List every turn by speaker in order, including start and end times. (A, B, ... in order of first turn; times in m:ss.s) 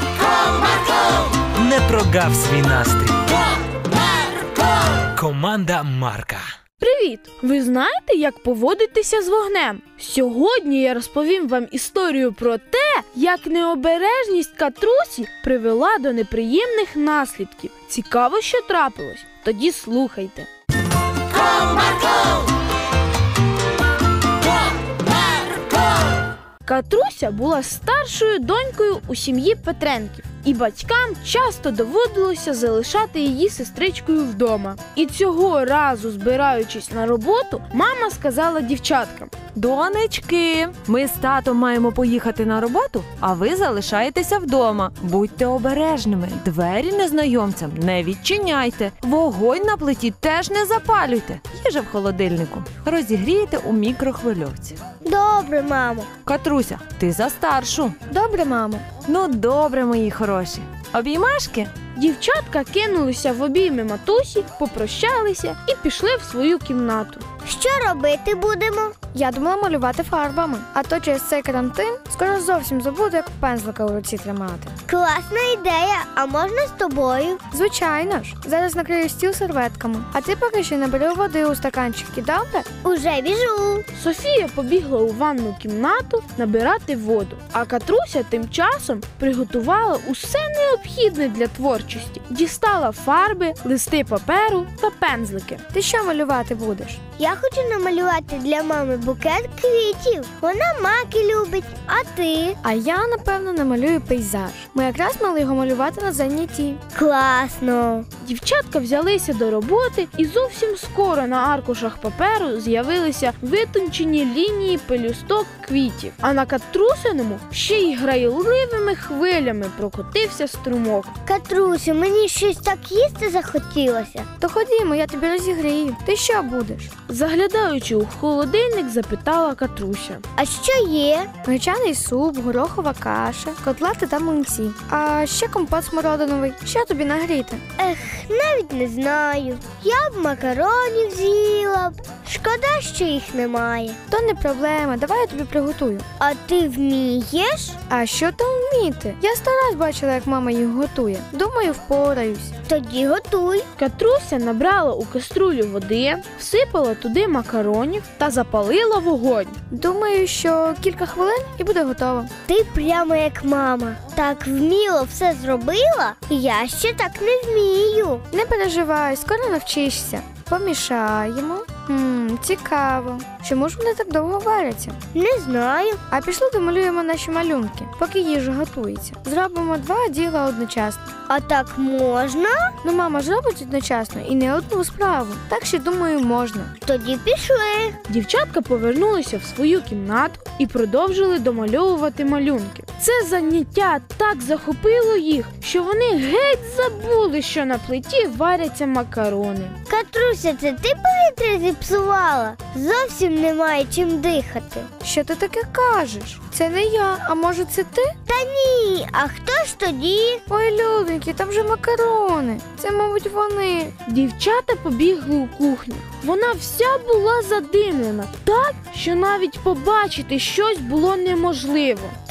0:01.5-0:03.4 A
0:05.1-0:06.5 A
0:06.8-0:20.5 B
0:26.6-0:39.4 B
0:39.5-0:54.8 C
0:55.0-0:56.1 D
0:56.2-0:58.0 C
0:58.1-0:58.8 E
0:59.0-1:01.7 C
1:01.9-1:07.2 B
1:07.4-1:08.9 D
1:09.1-1:14.7 E
1:14.9-1:17.4 D
1:17.5-1:22.7 E
1:22.8-1:23.8 D
1:23.9-1:35.6 B
1:35.7-1:37.0 E
1:37.2-1:42.6 D
1:42.6-1:46.8 E
1:46.9-1:48.0 D
1:48.2-2:01.1 B
2:01.2-2:04.3 D
2:04.4-2:06.9 E
2:07.1-2:10.2 B
2:10.4-2:11.3 D
2:11.4-2:17.6 E
2:17.8-2:24.0 D
2:24.1-2:26.0 E
2:26.2-2:27.8 D
2:27.9-2:32.5 E
2:32.7-2:33.7 D
2:33.8-2:39.6 B
2:39.7-2:42.3 E
2:42.5-2:48.2 D
2:48.3-2:55.0 E
2:55.1-2:56.0 D
2:56.1-3:01.1 E
3:01.3-3:02.7 D
3:02.8-3:06.7 E
3:06.8-3:08.0 D
3:08.1-3:19.8 B
3:19.9-3:24.9 D
3:25.0-3:28.1 E
3:28.3-3:30.4 D
3:30.5-3:33.9 E
3:34.0-3:42.1 B